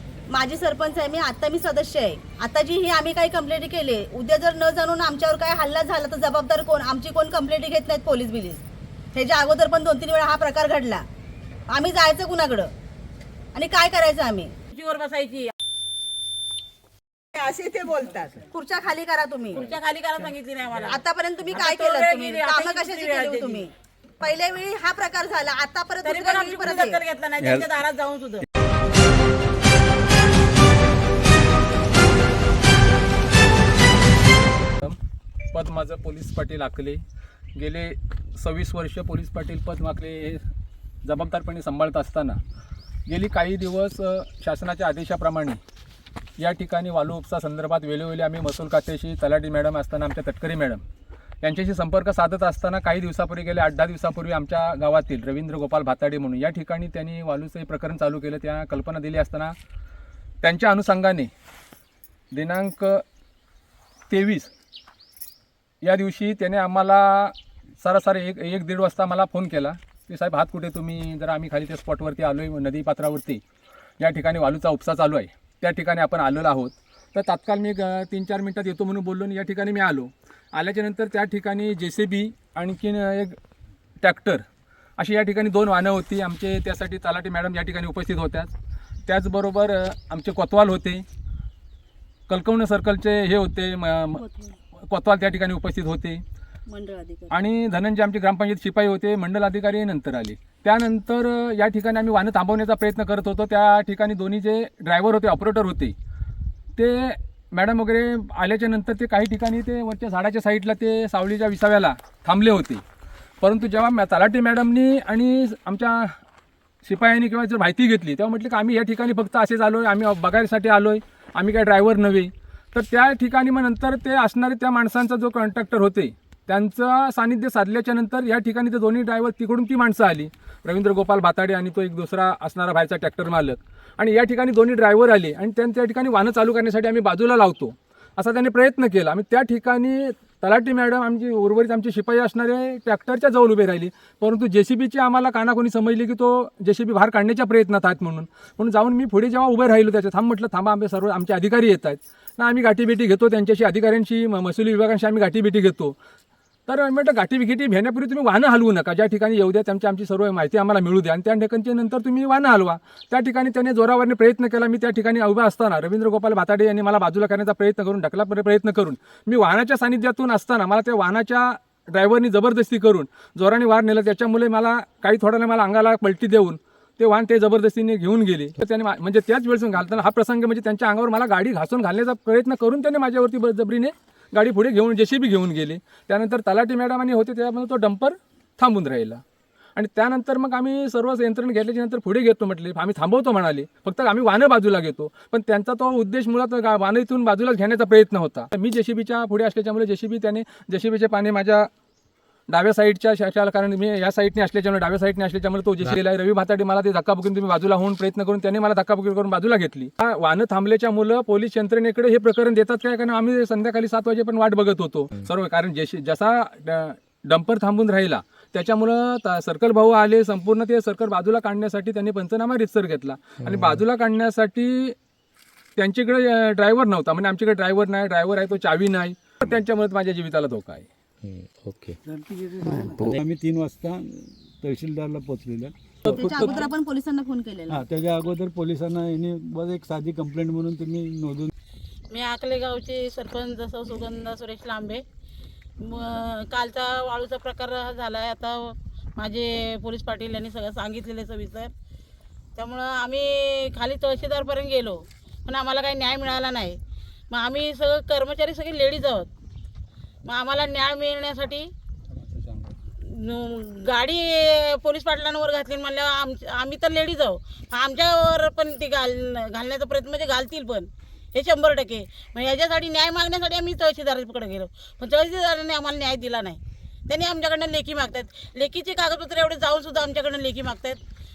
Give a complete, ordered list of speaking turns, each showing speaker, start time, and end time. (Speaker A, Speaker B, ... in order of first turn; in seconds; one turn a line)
Speaker A: 0.3-8.6
Speaker A: 9.1-11.1
Speaker A: 11.7-12.7
Speaker A: 13.5-14.5
Speaker B: 14.7-15.5
Speaker C: 17.4-18.3
Speaker A: 17.4-19.7
Speaker B: 19.6-23.7
Speaker A: 20.8-27.0
Speaker B: 26.0-28.5
Speaker D: 35.5-37.0
Speaker D: 37.6-40.4
Speaker D: 41.0-42.4
Speaker D: 43.1-45.6
Speaker D: 46.4-50.8
Speaker D: 51.4-59.6
Speaker D: 60.4-61.3
Speaker D: 62.3-63.0
Speaker D: 64.1-64.5
Speaker D: 65.8-73.4
Speaker D: 74.0-83.4
Speaker D: 84.0-84.4
Speaker D: 85.0-88.5
Speaker D: 89.1-91.0
Speaker D: 92.3-94.2
Speaker A: 94.2-94.6
Speaker D: 94.8-96.2
Speaker A: 96.7-97.4
Speaker D: 97.3-106.0
Speaker D: 106.8-112.8
Speaker D: 113.4-116.2
Speaker D: 116.8-156.0
Speaker D: 156.7-189.2
Speaker D: 189.8-201.7
Speaker D: 202.5-225.0
Speaker D: 225.8-230.9
Speaker C: 231.2-232.0
Speaker E: 232.1-236.5
Speaker C: 232.8-233.2
Speaker A: 236.1-237.8
Speaker D: 236.1-236.4
Speaker E: 237.7-241.5
Speaker B: 242.1-245.0
Speaker B: 245.8-251.7
Speaker B: 252.6-256.8
Speaker B: 257.3-259.3
Speaker B: 260.3-261.7
Speaker D: 262.1-262.7
Speaker B: 263.0-281.0